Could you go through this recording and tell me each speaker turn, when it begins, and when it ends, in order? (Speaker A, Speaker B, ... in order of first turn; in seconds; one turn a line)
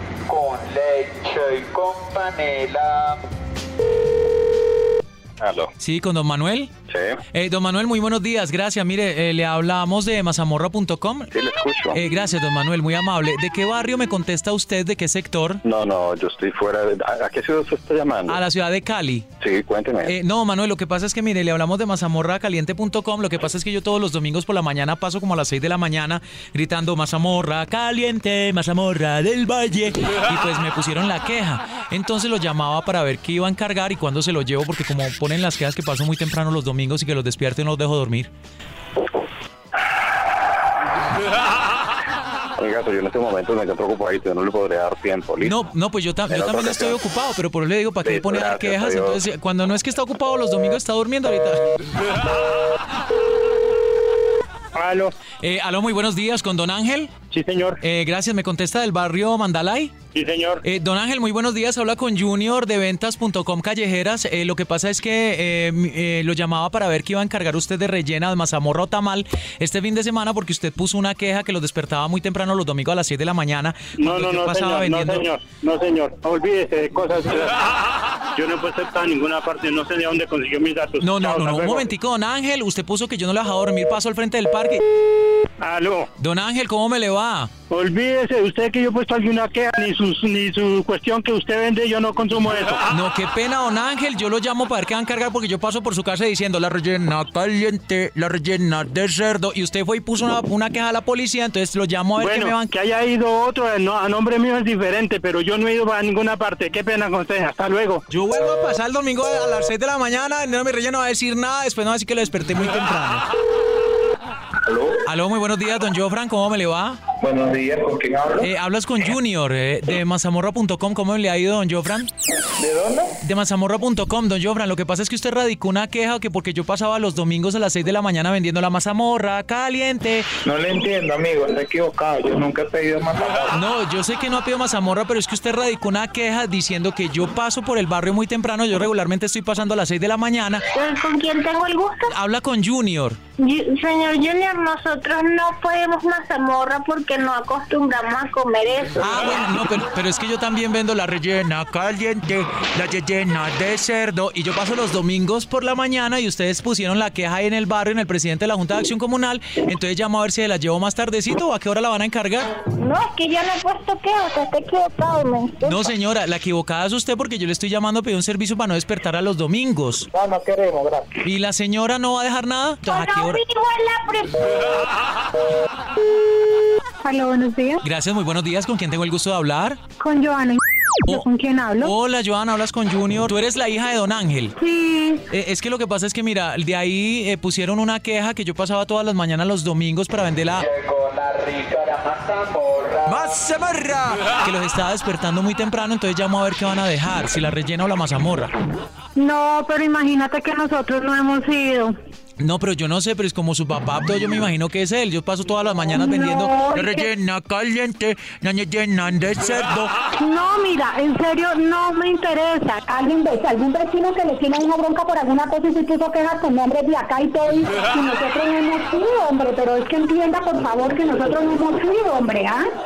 Speaker A: 0.3-3.2
Speaker B: 5.4-5.7
Speaker C: 5.8-6.7
Speaker B: 6.9-7.2
Speaker C: 7.3-11.3
Speaker B: 11.3-12.0
Speaker C: 11.9-15.6
Speaker B: 15.6-18.4
Speaker C: 18.3-19.3
Speaker B: 19.4-20.1
Speaker C: 20.1-38.3
Speaker B: 42.6-45.6
Speaker C: 45.4-51.7
Speaker B: 46.3-47.0
Speaker B: 48.0-49.2
Speaker D: 54.7-55.1
Speaker C: 55.4-57.1
Speaker D: 57.3-57.8
Speaker C: 57.8-60.0
Speaker D: 60.1-60.6
Speaker C: 60.6-75.3
Speaker D: 74.0-77.6
Speaker D: 78.3-81.8
Speaker C: 81.0-84.8
Speaker D: 85.6-86.1
Speaker C: 86.2-87.5
Speaker D: 87.7-92.8
Speaker C: 92.9-102.7
Speaker D: 102.2-108.0
Speaker C: 108.1-113.2
Speaker E: 114.7-115.0
Speaker C: 115.0-117.0
Speaker E: 117.2-118.5
Speaker C: 118.4-122.1
Speaker E: 122.6-123.2
Speaker C: 123.2-130.3
Speaker E: 130.4-133.6
Speaker C: 133.5-140.7
Speaker F: 140.7-142.1
Speaker C: 142.1-143.2
Speaker F: 143.4-149.3
Speaker C: 149.0-162.5
Speaker F: 162.8-165.8
Speaker C: 165.6-170.1
Speaker E: 170.1-171.1
Speaker C: 171.2-173.4
Speaker F: 172.9-174.4
Speaker G: 177.0-177.8
Speaker C: 177.8-179.8
Speaker G: 180.0-181.9
Speaker C: 181.1-184.6
Speaker G: 184.6-185.2
Speaker C: 185.3-190.7
Speaker A: 190.6-193.4
Speaker C: 193.1-198.5
Speaker G: 199.2-201.9
Speaker C: 202.4-209.9
Speaker H: 206.2-207.0
Speaker G: 210.2-212.7
Speaker H: 212.7-222.6